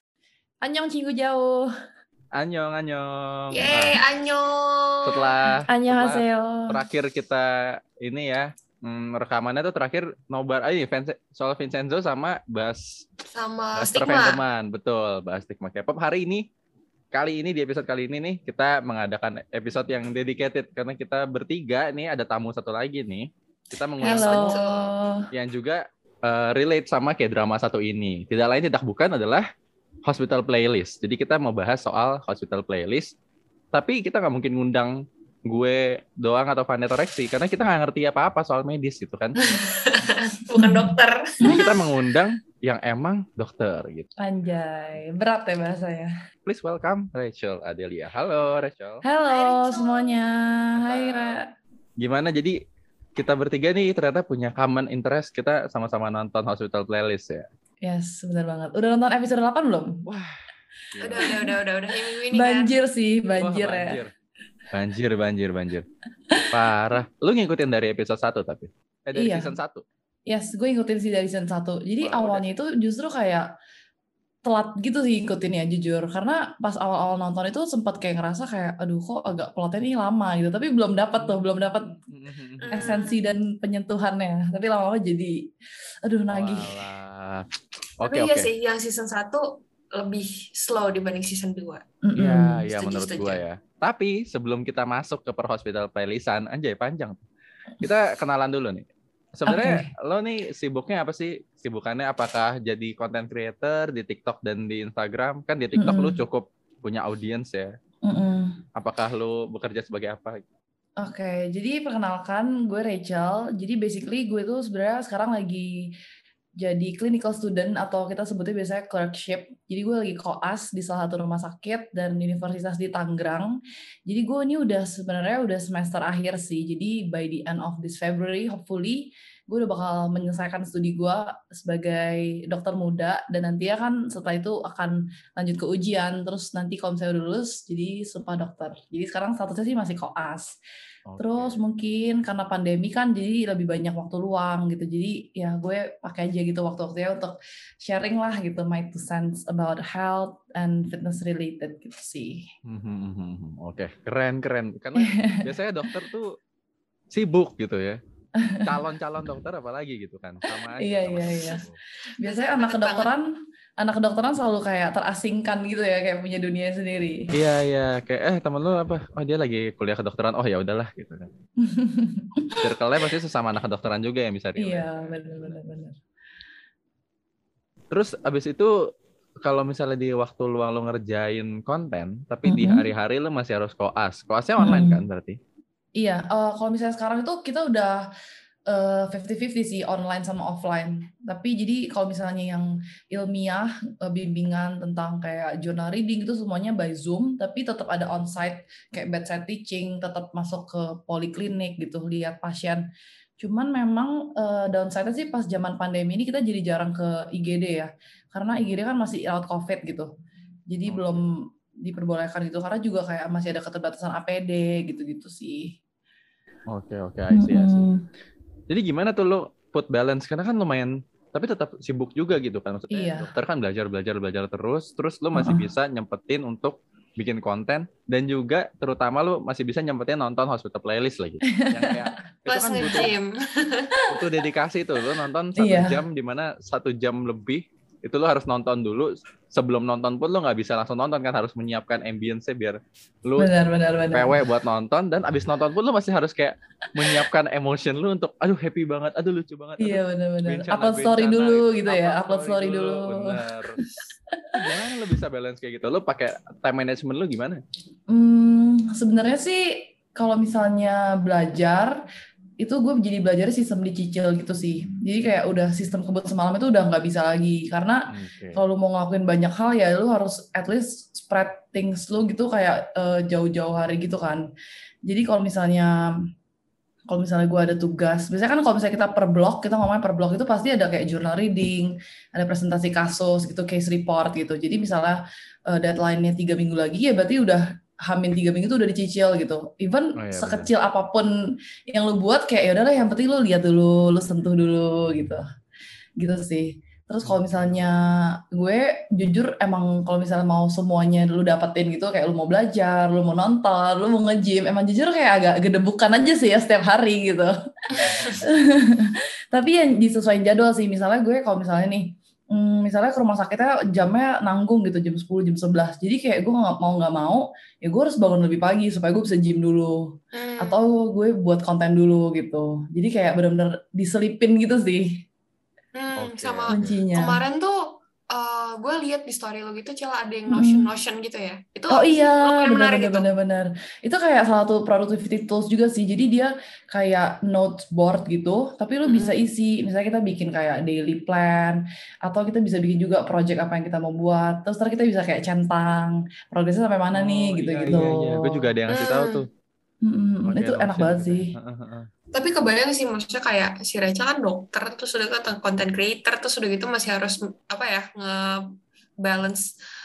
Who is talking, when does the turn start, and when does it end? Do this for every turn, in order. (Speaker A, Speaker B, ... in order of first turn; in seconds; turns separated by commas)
Speaker A: 0.6-1.7, Speaker B: 2.3-4.0, Speaker C: 3.5-5.3, Speaker B: 5.0-12.8, Speaker A: 5.7-6.8, Speaker C: 13.3-14.4, Speaker B: 13.8-16.4, Speaker B: 17.1-24.6, Speaker C: 24.0-24.9, Speaker A: 24.0-25.2, Speaker B: 25.3-29.4, Speaker B: 30.0-33.1, Speaker B: 33.7-39.4, Speaker C: 39.4-41.9, Speaker A: 40.6-41.7, Speaker B: 41.5-44.1, Speaker A: 44.2-46.1, Speaker B: 46.4-49.0, Speaker A: 49.0-51.5, Speaker C: 49.3-50.2, Speaker B: 50.8-51.4, Speaker B: 52.0-52.6, Speaker B: 53.1-57.5, Speaker A: 57.8-60.0, Speaker B: 60.0-61.3, Speaker C: 61.0-62.7, Speaker A: 61.2-61.5, Speaker A: 62.3-64.0, Speaker B: 63.3-64.1, Speaker B: 64.7-65.8, Speaker B: 66.5-69.8, Speaker A: 69.1-69.5, Speaker A: 70.3-73.5, Speaker B: 72.0-72.5, Speaker A: 74.4-82.0, Speaker B: 82.1-82.9, Speaker C: 82.6-83.2, Speaker A: 82.7-85.5, Speaker A: 86.0-86.7, Speaker B: 86.3-87.5, Speaker B: 88.0-88.5, Speaker C: 88.0-91.8, Speaker A: 92.0-92.6, Speaker B: 92.2-97.2, Speaker C: 92.7-93.4, Speaker B: 97.8-107.7, Speaker A: 99.5-99.9, Speaker A: 105.8-106.2, Speaker A: 108.0-108.6, Speaker B: 108.8-110.4, Speaker A: 111.0-115.9, Speaker A: 116.6-140.6, Speaker B: 141.1-141.6, Speaker A: 141.2-152.5, Speaker B: 152.6-156.3, Speaker A: 154.9-155.5, Speaker B: 157.1-158.0, Speaker A: 158.4-158.7, Speaker B: 158.6-161.8, Speaker A: 160.8-161.6, Speaker A: 162.2-167.3, Speaker C: 162.2-163.1, Speaker B: 167.3-171.3, Speaker A: 171.6-172.6, Speaker B: 172.6-175.6, Speaker A: 174.6-176.0, Speaker B: 177.9-178.7, Speaker B: 179.4-185.4, Speaker A: 182.4-182.9, Speaker A: 184.6-185.0, Speaker A: 186.0-188.0, Speaker A: 188.7-202.8, Speaker A: 203.4-210.1, Speaker A: 210.7-215.8, Speaker B: 210.8-211.2, Speaker B: 216.7-217.9, Speaker A: 217.3-218.0, Speaker B: 218.7-233.1, Speaker A: 222.9-223.3, Speaker A: 225.3-225.7, Speaker A: 231.5-232.1, Speaker C: 232.5-233.9, Speaker B: 234.1-243.5, Speaker A: 235.6-236.0, Speaker A: 243.4-244.4, Speaker B: 244.1-253.8, Speaker A: 249.8-254.5, Speaker B: 254.5-257.6, Speaker A: 258.1-262.0, Speaker A: 262.6-268.0, Speaker B: 268.1-268.6, Speaker A: 268.5-274.4, Speaker A: 275.1-276.0, Speaker A: 277.1-291.3, Speaker B: 290.1-290.7, Speaker A: 291.9-295.4, Speaker A: 296.2-307.5, Speaker B: 297.2-297.9, Speaker C: 307.9-308.4, Speaker B: 308.0-308.4, Speaker A: 308.4-325.2, Speaker C: 320.3-320.8, Speaker C: 325.9-333.2, Speaker B: 326.2-327.0, Speaker A: 326.7-327.4, Speaker A: 330.5-330.9, Speaker A: 331.9-348.7, Speaker C: 339.1-339.3, Speaker B: 347.1-349.5, Speaker C: 348.9-349.4, Speaker A: 350.0-351.6, Speaker B: 350.4-352.1, Speaker C: 352.3-358.6, Speaker C: 359.2-359.7